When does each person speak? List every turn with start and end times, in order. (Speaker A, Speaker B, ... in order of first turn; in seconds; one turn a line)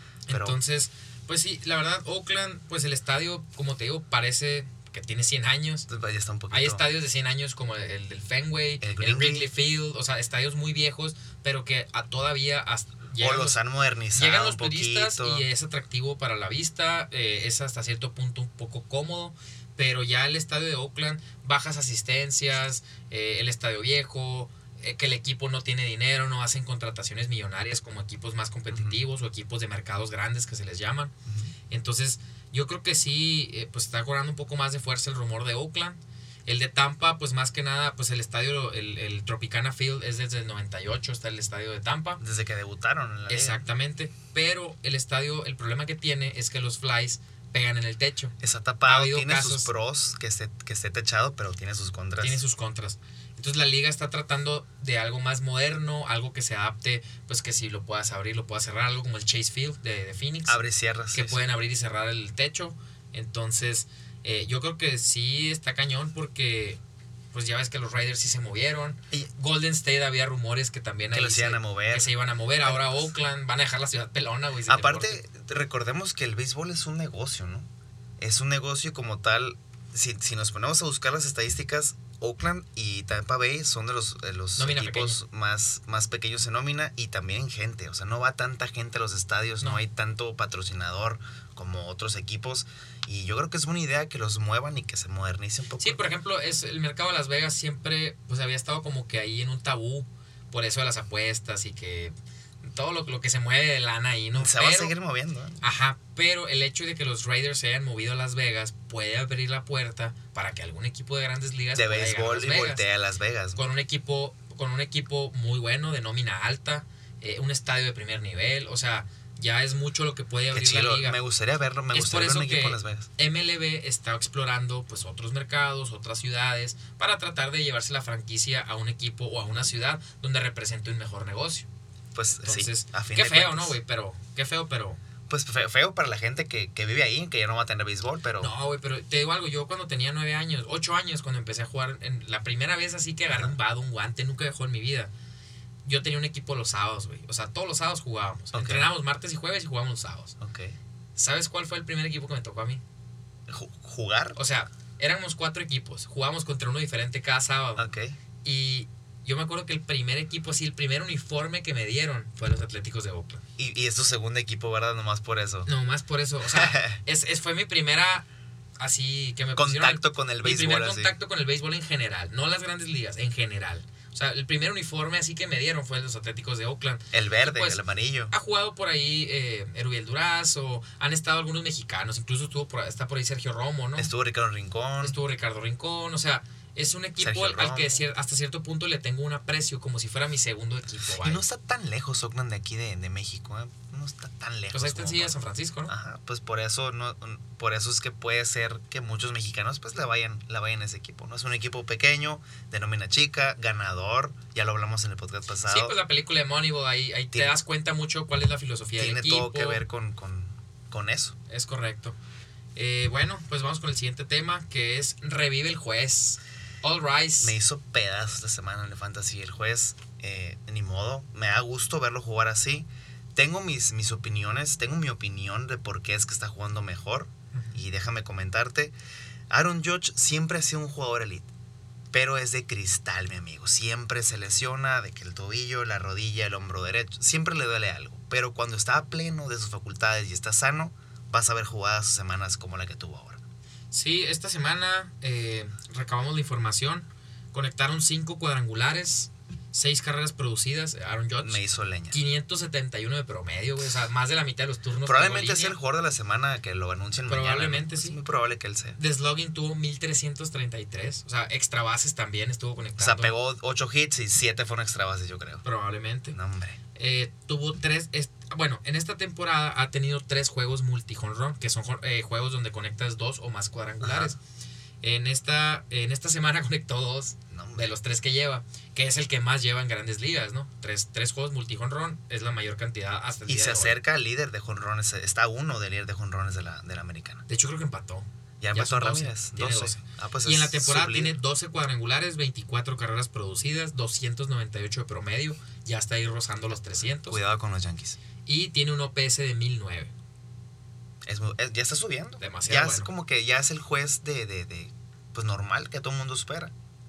Speaker A: 0.3-5.9
Speaker B: 0.3-0.6
Speaker B: 5.9-6.8
Speaker A: 6.5-13.6
Speaker B: 8.8-9.5
Speaker B: 13.2-15.4
Speaker A: 14.1-31.1
Speaker B: 28.7-29.0
Speaker B: 31.3-31.5
Speaker A: 31.7-42.2
Speaker B: 42.2-43.6
Speaker A: 43.3-48.3
Speaker B: 48.4-52.4
Speaker A: 48.9-49.7
Speaker A: 52.2-60.6
Speaker B: 60.5-61.4
Speaker A: 61.1-66.8
Speaker A: 67.3-75.2
Speaker B: 71.1-73.1
Speaker B: 74.7-77.7
Speaker B: 78.2-96.0
Speaker A: 84.6-85.2
Speaker A: 95.8-104.9
Speaker B: 104.3-105.6
Speaker A: 105.6-112.8
Speaker B: 111.7-113.6
Speaker A: 113.5-121.2
Speaker B: 120.5-123.1
Speaker A: 121.9-131.7
Speaker B: 132.1-133.8
Speaker A: 132.4-135.0
Speaker B: 135.3-138.5
Speaker A: 138.4-145.1
Speaker B: 143.3-143.6
Speaker A: 145.8-150.3
Speaker B: 148.5-148.9
Speaker B: 150.4-150.8
Speaker A: 151.2-152.8
Speaker B: 153.5-154.4
Speaker A: 154.3-157.8
Speaker B: 157.8-158.2
Speaker A: 158.4-163.4
Speaker B: 163.6-165.7
Speaker A: 165.7-168.2
Speaker B: 166.5-167.0
Speaker A: 168.8-184.1
Speaker B: 169.6-171.1
Speaker B: 177.1-178.3
Speaker B: 184.0-185.2
Speaker A: 185.0-191.4
Speaker B: 187.2-188.0
Speaker B: 191.1-195.3
Speaker A: 194.7-195.9
Speaker B: 195.9-205.9
Speaker A: 205.7-209.8
Speaker B: 209.0-211.3
Speaker A: 211.5-212.2
Speaker A: 212.8-217.5
Speaker B: 217.4-228.9
Speaker B: 229.5-231.5
Speaker B: 232.1-243.4
Speaker A: 243.9-255.8
Speaker B: 251.4-252.2
Speaker B: 255.0-259.0
Speaker A: 257.3-258.2
Speaker A: 259.0-263.4
Speaker B: 263.0-265.6
Speaker A: 265.6-266.4
Speaker B: 266.3-266.8
Speaker A: 266.9-274.4
Speaker B: 274.0-274.3
Speaker A: 275.0-284.0
Speaker B: 277.5-277.9
Speaker B: 283.5-287.4
Speaker A: 287.5-297.4
Speaker B: 288.6-291.4
Speaker B: 297.2-298.2
Speaker A: 298.4-300.1
Speaker B: 301.2-306.7
Speaker A: 302.4-303.1